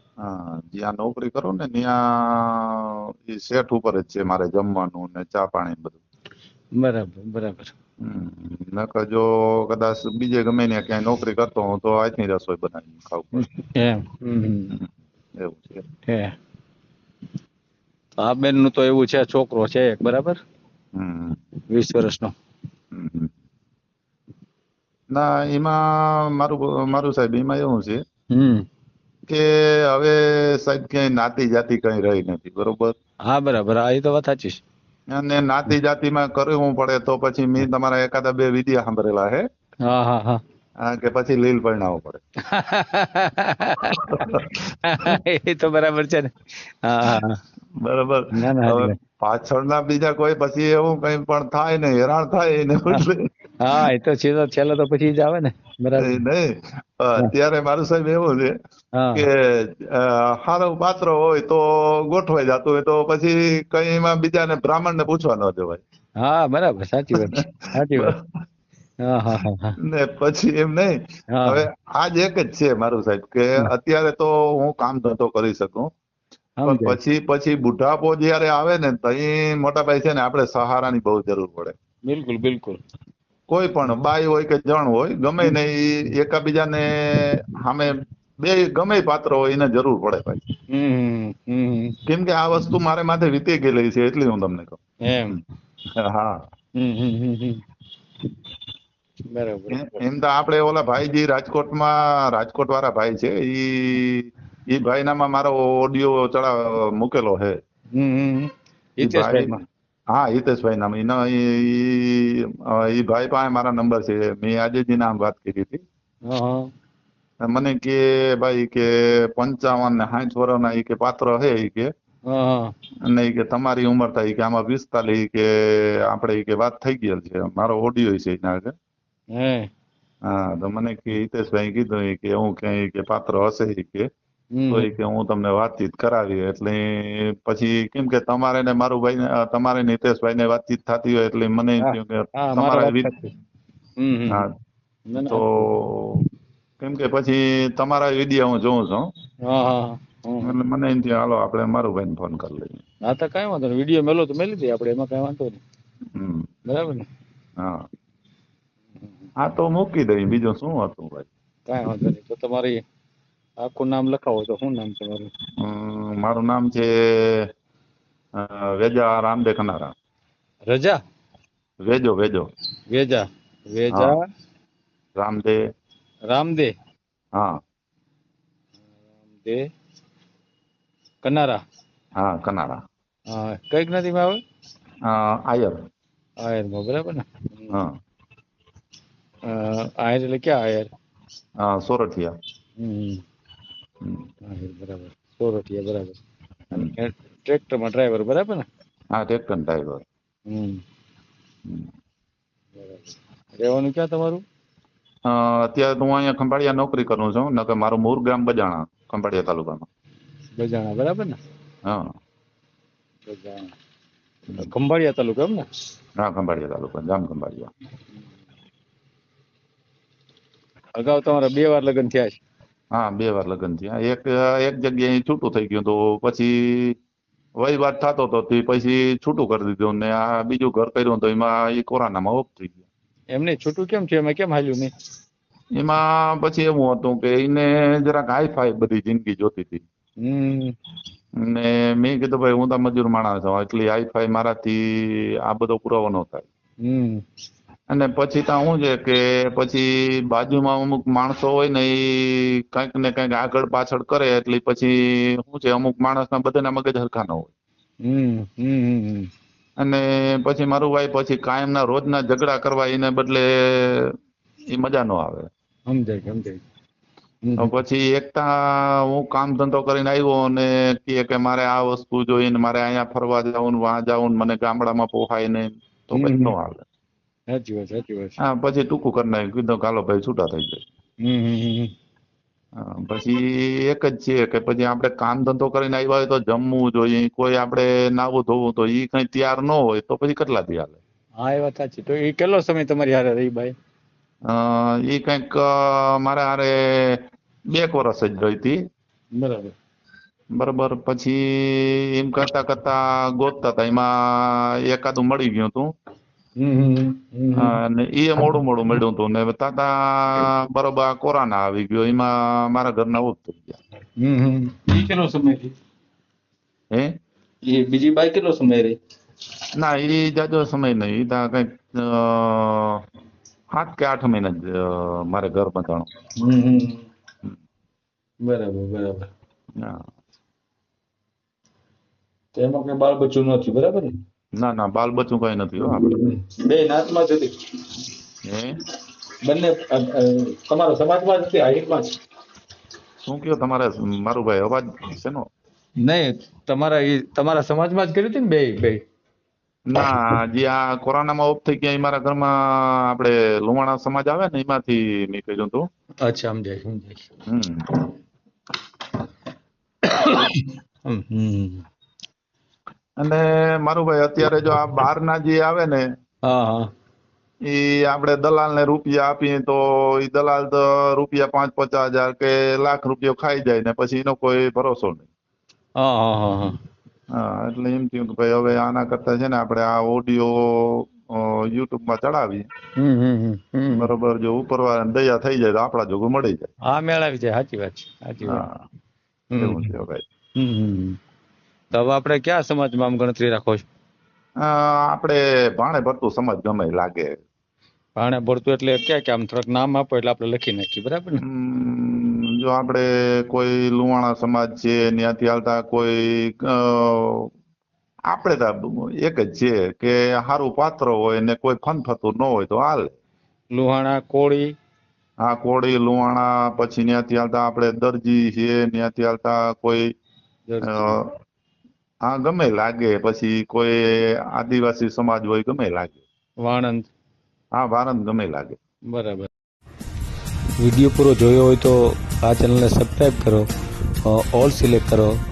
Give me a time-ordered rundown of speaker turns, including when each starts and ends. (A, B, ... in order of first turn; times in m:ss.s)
0:00.2-0:06.0 A
0:06.7-0:07.7 B
0:08.0-0:13.5 A
0:13.4-0:14.7 B
0:14.7-0:15.8 A
0:16.1-0:16.3 B
0:18.2-0:20.4 B
0:20.9-0:21.4 A
0:21.7-0:22.3 B
0:22.9-0:23.3 A
0:25.1-0:28.0 A
0:28.3-0:28.6 B
0:29.3-0:32.9 A
0:33.3-0:34.6 B
0:35.1-0:39.4 A
0:39.8-0:40.4 B
0:40.8-0:42.2 A
0:42.5-0:44.3 B
0:44.1-0:45.1 A
0:44.8-0:47.4 B
0:47.8-0:53.2 A
0:48.3-0:48.9 B
0:53.6-0:56.2 B
0:56.0-0:58.5 A
0:58.9-0:59.2 B
0:59.1-1:05.8 A
1:06.2-1:08.2 B
1:07.3-1:08.2 A
1:09.0-1:09.8 B
1:09.8-1:15.9 A
1:11.3-1:11.6 B
1:16.6-1:17.0 B
1:16.6-1:21.7 A
1:22.0-1:22.8 B
1:23.5-1:30.4 A
1:30.7-1:32.0 B
1:32.1-1:34.8 A
1:35.0-1:35.4 B
1:36.0-1:36.4 A
1:36.8-1:37.6 B
1:39.3-1:40.0 B
1:39.7-1:47.6 A
1:48.0-1:49.6 B
1:49.0-1:49.5 A
1:50.1-1:55.8 A
1:56.2-1:56.7 B
1:57.4-2:01.9 A
2:02.3-2:02.7 B
2:03.1-2:08.7 A
2:09.3-2:09.7 B
2:10.2-2:14.1 A
2:14.5-2:14.9 B
2:14.7-2:23.1 A
2:21.8-2:23.3 B
2:24.0-2:24.4 B
2:25.1-2:25.6 B
2:25.2-2:26.2 A
2:26.8-2:29.1 A
2:29.4-2:30.6 B
2:30.4-2:32.8 A
2:33.0-2:35.6 B
2:36.2-2:36.5 A
2:36.7-2:37.1 B
2:37.6-2:37.8 A
2:39.4-2:41.3 A
2:41.7-2:42.8 B
2:43.6-2:45.3 B
2:45.6-2:47.5 A
2:48.4-2:49.9 A
2:50.7-2:51.0 B
2:51.8-2:52.5 A
2:52.9-2:54.2 B
2:55.2-2:55.6 A
2:56.3-2:56.7 B
2:59.3-2:59.7 B
3:01.2-3:01.6 B
3:02.2-3:02.8 A
3:03.3-3:04.4 B
3:05.0-3:05.8 A
3:06.4-3:07.8 B
3:09.5-3:10.9 B
3:11.6-3:12.3 A
3:12.8-3:13.2 B
3:14.4-3:16.2 B
3:16.7-3:18.7 B
3:19.1-3:20.0 A
3:20.5-3:20.8 B
3:22.8-3:24.4 B
3:25.3-3:29.9 A
3:30.6-3:31.4 B
3:31.8-3:32.1 A
3:33.3-3:33.7 B
3:34.6-3:35.6 B
3:36.2-3:37.7 A
3:41.0-3:42.4 B
3:42.9-3:47.0 A
3:47.6-3:52.8 A
3:53.3-3:54.9 B
3:55.8-3:59.8 A
4:00.2-4:00.7 B
4:01.4-4:06.5 A
4:06.8-4:07.2 B
4:07.9-4:17.5 A
4:18.0-4:19.3 B
4:19.8-4:24.1 A
4:24.7-4:25.5 A
4:25.9-4:26.6 B
4:27.4-4:27.7 B
4:27.6-4:36.8 A
4:36.1-4:36.5 B
4:37.5-4:38.4 B
4:38.4-4:40.8 A
4:41.2-4:41.9 B
4:42.8-4:51.0 A
4:51.4-4:53.7 B
4:54.5-4:58.8 A
4:59.3-4:59.7 B
5:00.6-5:05.9 A
5:06.6-5:07.7 B
5:07.6-5:13.8 A
5:14.2-5:15.7 B
5:17.6-5:19.0 B
5:19.7-5:23.0 A
5:23.7-5:26.1 A
5:26.4-5:27.0 B
5:28.4-5:29.3 B
5:32.5-5:34.1 B
5:34.6-5:36.3 A
5:36.1-5:37.5 B
5:38.4-5:38.8 A
5:39.4-5:42.1 B
5:43.2-5:45.5 A
5:46.0-5:49.0 B
5:49.9-5:55.8 A
5:56.2-5:57.2 B
5:57.5-5:57.8 A
6:00.0-6:01.8 B
6:03.2-6:06.1 A
6:06.4-6:06.9 B
6:07.7-6:15.3 A
6:16.0-6:16.7 B
6:17.3-6:22.7 A
6:23.0-6:24.1 B
6:23.9-6:26.7 A
6:26.9-6:28.6 B
6:28.4-6:28.8 A
6:29.5-6:29.9 B
6:29.6-6:30.2 A
6:30.6-6:31.2 B
6:31.9-6:33.8 B
6:34.6-6:37.3 A
6:38.2-6:41.4 B
6:41.4-6:47.5 A
6:48.3-6:53.1 A
6:53.7-6:54.7 B
6:55.4-7:00.1 A
7:00.7-7:01.2 B
7:00.9-7:01.3 A
7:02.2-7:06.2 A
7:06.6-7:07.1 B
7:07.8-7:08.8 A
7:09.1-7:09.5 B
7:10.8-7:13.6 B
7:14.2-7:15.4 B